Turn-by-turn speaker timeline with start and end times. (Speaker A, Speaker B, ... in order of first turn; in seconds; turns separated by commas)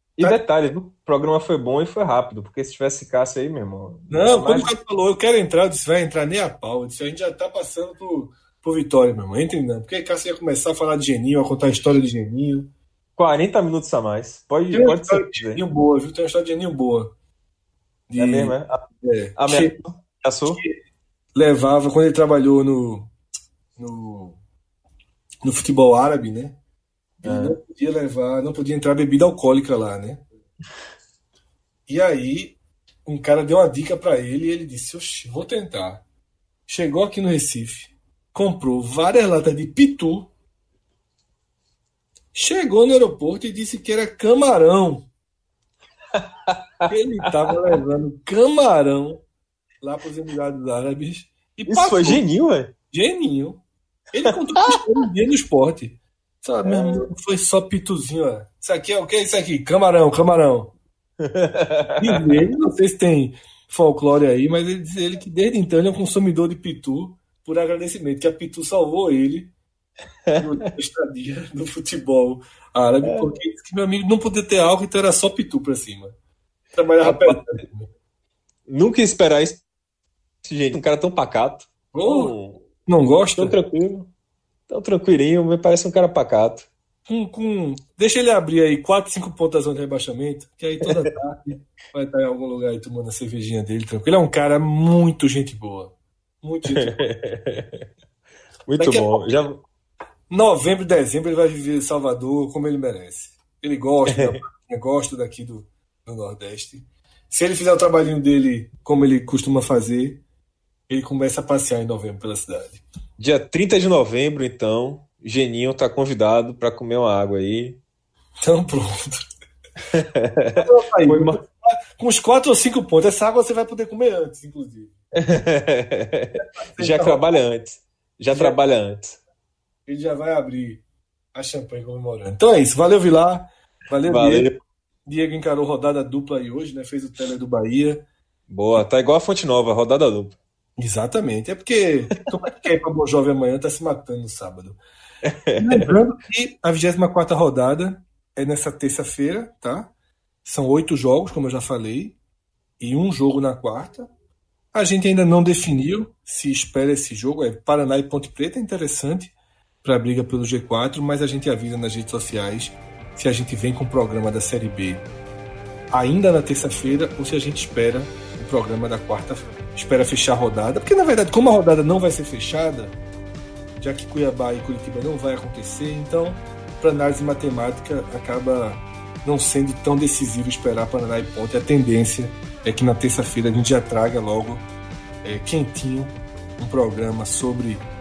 Speaker A: 0.2-4.7, Speaker B: 4.1-12.7, Speaker A: 13.2-15.6, Speaker B: 14.7-17.1, Speaker B: 18.1-19.8, Speaker A: 18.2-18.8, Speaker A: 19.4-20.6, Speaker B: 21.3-23.1, Speaker B: 23.8-24.4, Speaker B: 25.4-26.6, Speaker B: 27.2-30.2, Speaker A: 27.2-27.6, Speaker B: 31.9-36.0, Speaker B: 36.7-40.3, Speaker B: 42.3-45.0, Speaker A: 46.1-47.6, Speaker B: 46.9-49.2, Speaker B: 49.8-52.2, Speaker A: 51.7-52.7, Speaker B: 52.9-53.6, Speaker B: 54.1-60.7, Speaker A: 54.2-54.8, Speaker A: 56.6-57.0, Speaker A: 61.2-62.4, Speaker B: 61.9-69.5, Speaker A: 70.3-70.7, Speaker B: 70.3-76.1, Speaker A: 73.0-73.3, Speaker B: 76.7-77.9, Speaker A: 77.0-77.5, Speaker A: 78.7-79.6, Speaker A: 80.4-82.7, Speaker B: 81.9-82.3, Speaker B: 82.8-83.6, Speaker A: 83.3-84.1, Speaker A: 84.7-86.7, Speaker B: 87.0-97.1, Speaker A: 96.7-97.8, Speaker A: 98.7-99.6, Speaker B: 98.8-99.4, Speaker B: 100.3-110.2, Speaker A: 104.1-104.4, Speaker B: 110.9-112.8, Speaker A: 113.2-117.8, Speaker B: 118.4-119.2, Speaker A: 119.9-121.4, Speaker B: 120.6-124.9, Speaker A: 125.1-129.2, Speaker B: 126.4-127.2, Speaker B: 128.3-128.6, Speaker B: 129.9-130.8, Speaker B: 131.3-134.5, Speaker A: 134.1-134.5, Speaker B: 135.1-138.0, Speaker A: 138.5-140.4, Speaker B: 140.8-144.8, Speaker A: 145.2-145.9, Speaker B: 145.5-149.9, Speaker B: 150.4-152.2, Speaker B: 152.8-154.1, Speaker B: 154.7-165.1, Speaker B: 165.9-172.9, Speaker B: 173.8-184.7, Speaker B: 185.2-187.8